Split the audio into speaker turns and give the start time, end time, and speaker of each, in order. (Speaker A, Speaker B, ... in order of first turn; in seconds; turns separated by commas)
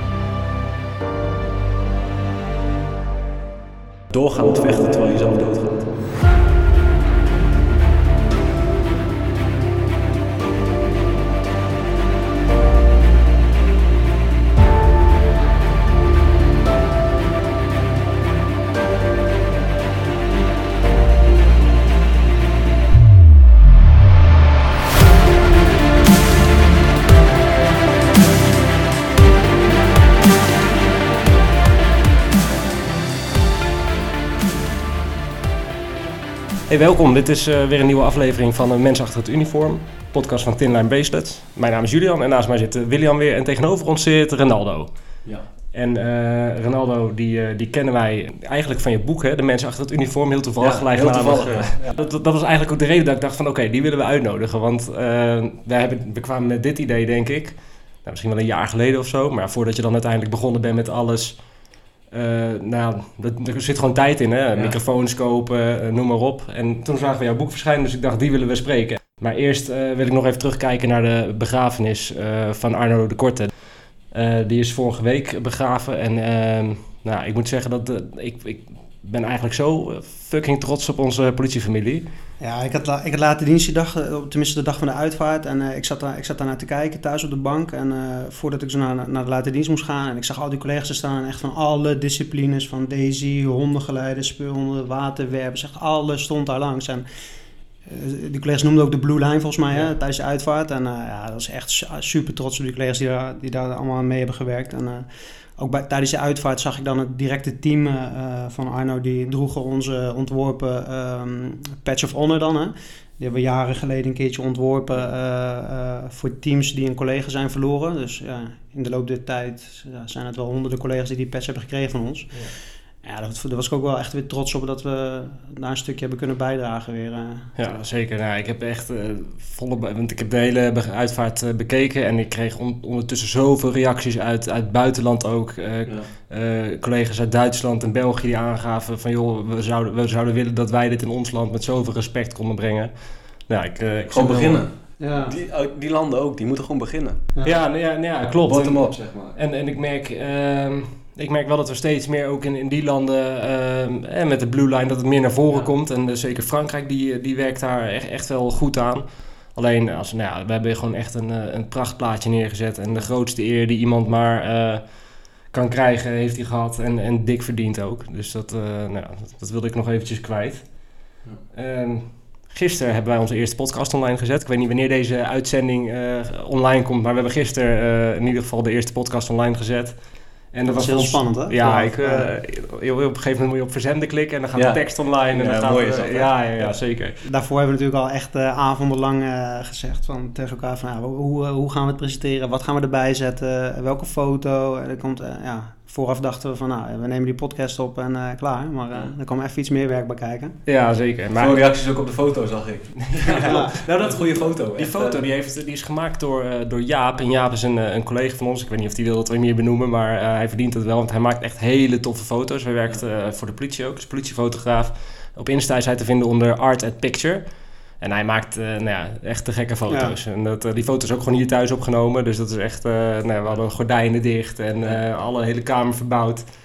Speaker A: 4.1-5.9, Speaker B: 36.7-44.9, Speaker B: 45.7-61.5, Speaker A: 50.6-52.0, Speaker B: 62.1-82.0, Speaker C: 82.4-97.0, Speaker C: 97.8-127.6, Speaker B: 127.6-144.6, Speaker A: 144.1-147.2, Speaker C: 145.0-145.3, Speaker B: 147.4-187.2, Speaker A: 148.4-149.4, Speaker C: 180.7-182.3, Speaker A: 184.6-186.8, Speaker C: 187.2-200.6, Speaker B: 200.7-201.6, Speaker A: 201.3-205.2, Speaker B: 203.0-226.5, Speaker C: 203.4-203.7, Speaker C: 219.9-220.1